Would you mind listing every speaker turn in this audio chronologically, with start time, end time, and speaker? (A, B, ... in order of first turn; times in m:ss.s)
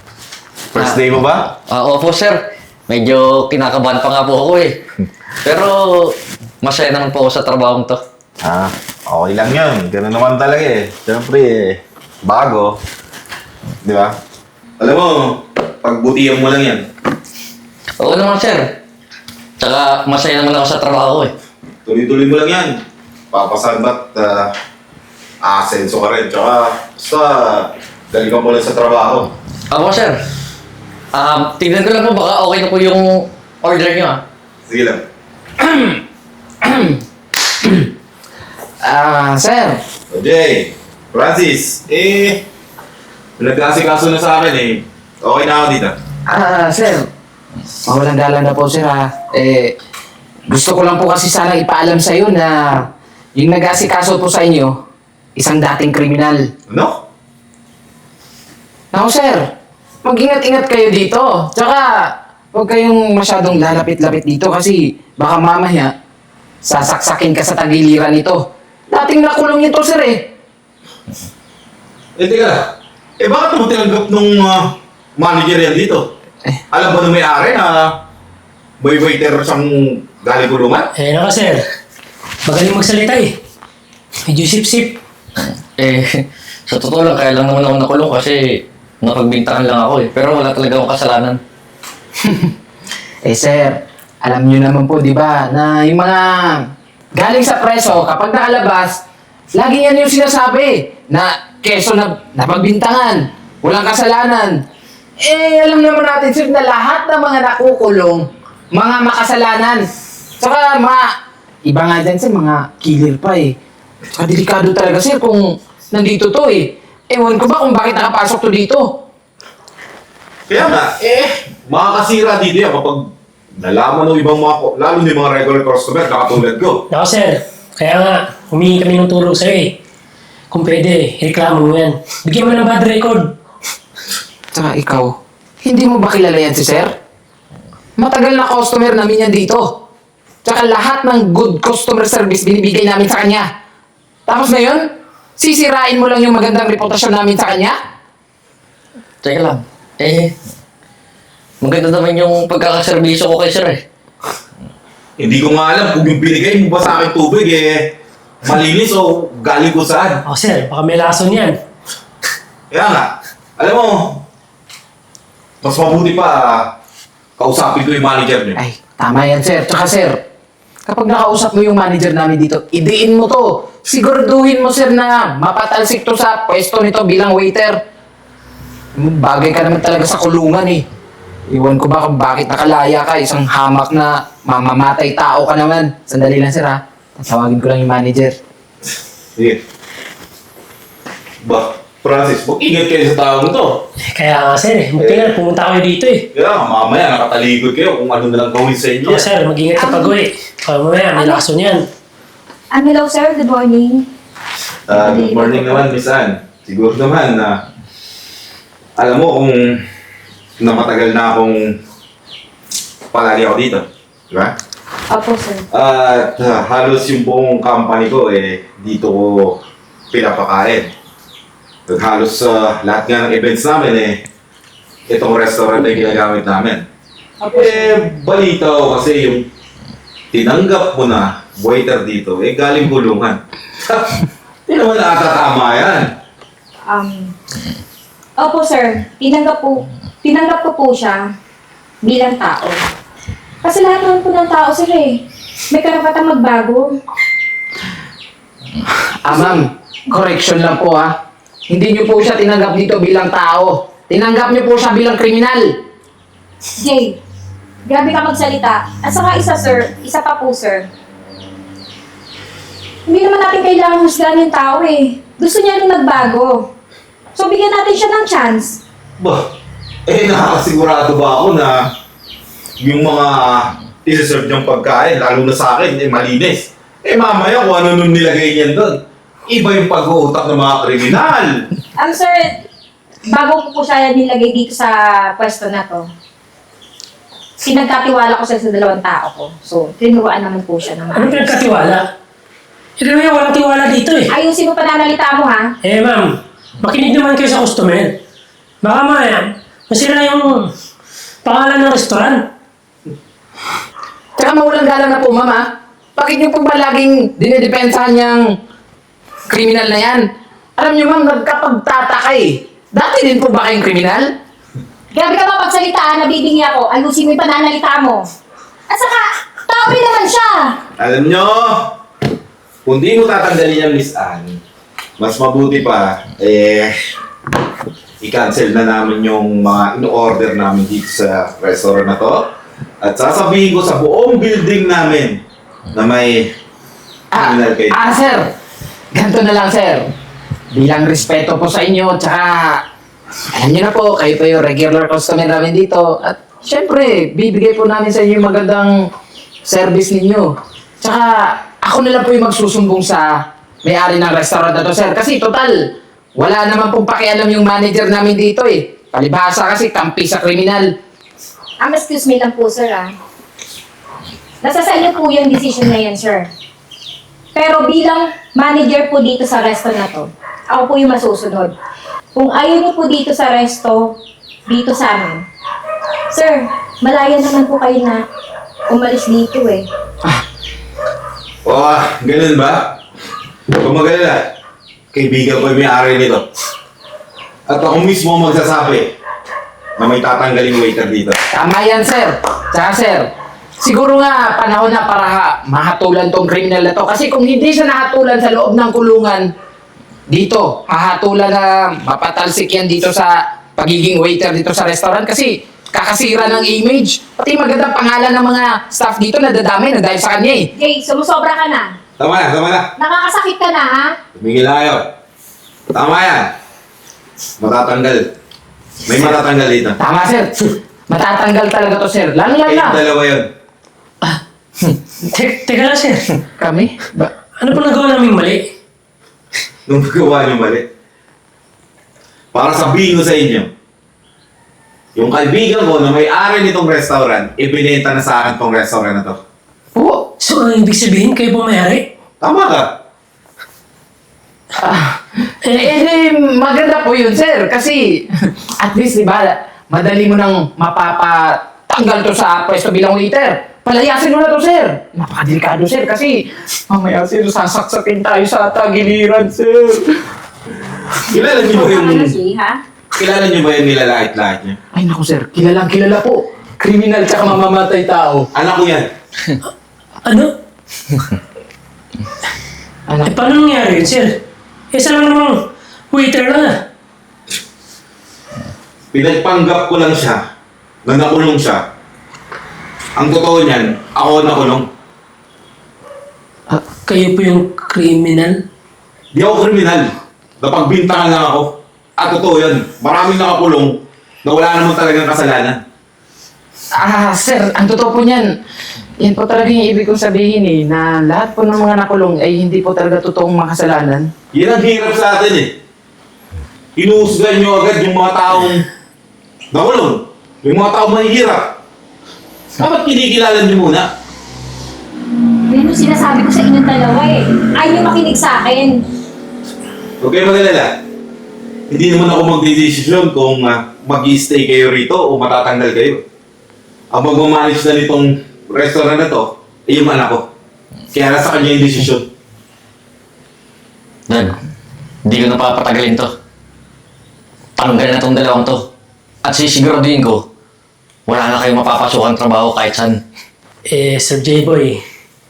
0:00.7-0:01.5 A
0:01.7-0:04.8 B
0:05.4-0:08.0 B
0:08.4-0:12.8 A
0:13.8-0:14.1 A
0:14.8-0:16.8 A
0:18.0-0:18.6 B
0:19.6-0:21.3 B
0:21.8-0:22.8 A
0:23.3-0:24.5 A
0:25.4-0:29.3 A
0:29.7-0:30.2 B
0:31.1-0:34.2 B
0:34.7-0:35.0 A
0:35.6-0:36.0 C
0:36.6-0:37.0 C
0:37.6-0:37.9 C
0:38.8-0:39.8 C
0:40.1-0:42.4 A
0:43.4-0:46.0 A
0:46.3-0:47.1 C
0:47.8-0:49.7 C
0:50.5-0:52.7 C
0:53.4-0:54.7 C
0:55.4-0:56.4 C
0:56.7-0:57.0 A
0:58.9-0:59.4 C
1:00.0-1:01.9 C
1:02.5-1:05.9 C
1:06.6-1:10.2 C
1:12.2-1:12.7 A
1:13.2-1:16.1 A
1:16.7-1:18.0 A
1:18.8-1:20.9 A
1:21.0-1:21.6 D
1:22.4-1:23.4 D
1:24.3-1:25.0 D
1:25.8-1:31.4 B
1:32.2-1:32.5 C
1:33.2-1:39.0 C
1:39.6-1:44.5 C
1:45.2-1:49.8 C
1:50.4-1:51.0 C
1:51.6-1:53.5 C
1:54.1-1:58.8 C
2:00.5-2:06.8 A
2:06.9-2:09.8 D
2:10.5-2:13.3 D
2:14.5-2:16.9 C
2:18.0-2:19.7 C
2:20.4-2:23.5 C
2:24.3-2:24.8 C
2:25.4-2:27.8 C
2:29.2-2:30.3 B
2:31.6-2:33.8 B
2:35.2-2:37.9 A
2:38.4-2:40.2 A
2:40.2-2:41.6 D
2:42.7-2:44.2 A
2:45.6-2:46.7 A
2:47.4-2:48.6 A
2:48.6-2:50.2 C
2:50.8-2:57.8 C
2:59.0-3:00.8 C
3:01.5-3:08.3 C
3:11.4-3:13.8 A
3:14.1-3:16.3 D
3:15.0-3:15.4 A
3:16.3-3:19.3 A
3:19.0-3:21.8 D
3:19.7-3:20.2 E
3:21.1-3:21.4 E
3:22.7-3:24.1 E
3:24.9-3:27.6 A
3:24.9-3:25.8 E
3:29.0-3:29.8 A
3:30.6-3:31.8 A
3:33.1-3:34.5 A
3:35.1-3:35.6 E
3:35.7-3:39.6 A
3:40.1-3:40.9 A
3:41.9-3:44.2 A
3:45.1-3:46.8 A
3:47.4-3:47.9 E
3:47.5-3:49.5 A
3:50.3-3:56.1 A
3:56.9-3:57.3 E
3:58.4-4:01.2 E
4:02.0-4:02.8 E
4:03.6-4:06.9 E
4:09.2-4:11.1 C
4:11.7-4:15.7 C
4:16.8-4:17.2 E
4:17.8-4:20.9 E
4:23.1-4:26.7 E
4:27.3-4:28.8 E
4:29.2-4:29.5 A
4:30.1-4:31.9 A
4:32.8-4:41.6 A
4:42.0-4:42.6 E
4:43.3-4:46.1 E
4:47.6-4:51.6 E
4:51.1-4:52.0 D
4:53.0-4:54.3 D
4:54.3-4:55.7 E
4:55.8-4:58.2 D
4:58.8-5:00.7 D
5:01.4-5:02.4 D
5:04.4-5:08.4 C
5:09.5-5:10.2 C
5:10.8-5:14.3 C
5:15.1-5:18.3 E
5:18.9-5:20.7 E
5:21.0-5:21.9 A
5:22.8-5:24.6 A
5:25.2-5:27.0 A
5:28.2-5:32.5 A
5:33.0-5:36.5 A
5:37.3-5:38.5 C
5:37.4-5:38.0 A
5:39.1-5:40.1 C
5:40.7-5:42.8 C
5:43.5-5:48.9 C
5:49.6-5:53.3 C
5:53.8-5:55.8 C
5:56.4-6:00.9 C
6:01.8-6:03.2 E
6:04.6-6:06.5 E
6:07.5-6:11.8 E
6:12.3-6:14.2 E
6:14.7-6:15.4 E
6:16.3-6:18.2 E
6:18.9-6:19.9 E
6:21.6-6:23.0 A
6:23.7-6:24.5 A
6:25.1-6:26.4 A
6:27.7-6:29.1 A
6:30.0-6:31.4 A
6:31.5-6:33.3 C
6:33.8-6:39.5 C
6:40.3-6:50.7 C
6:50.7-6:51.9 E
6:52.2-6:52.9 A
6:53.0-6:54.1 E
6:54.4-6:55.1 A
6:55.9-6:56.5 A
6:57.6-6:58.3 A
6:59.0-7:00.0 A
7:00.0-7:03.0 C
7:02.6-7:03.5 A
7:05.2-7:06.4 D
7:06.6-7:07.3 C
7:07.6-7:08.7 D
7:09.9-7:10.9 A
7:12.5-7:13.7 A
7:15.1-7:19.4 A
7:19.9-7:20.3 C
7:20.4-7:22.1 D
7:22.4-7:22.9 A
7:24.8-7:40.2 C
7:25.6-7:25.9 D
7:41.2-7:42.4 A
7:41.3-7:42.8 E
7:43.2-7:44.8 A
7:44.9-7:48.5 C
7:48.5-7:49.1 A
7:50.2-7:50.5 D
7:53.1-7:53.3 C
7:53.2-7:54.4 D
7:54.9-7:56.8 D
7:59.1-8:00.4 A
8:01.0-8:01.8 A
8:03.2-8:04.9 A
8:07.0-8:08.6 D
8:09.3-8:15.8 A
8:17.0-8:18.5 C
8:19.2-8:24.3 C
8:24.5-8:25.7 A
8:27.0-8:28.8 A
8:29.7-8:31.8 A
8:32.8-8:34.1 A
8:35.7-8:39.0 E
8:40.2-8:41.0 A
8:41.9-8:46.2 A
8:47.1-8:50.5 A
8:51.1-8:52.3 A
8:54.3-8:54.5 B
8:55.2-8:56.3 B
8:57.8-8:58.8 B
8:59.4-9:00.4 B
9:01.3-9:03.2 B
9:03.9-9:05.0 D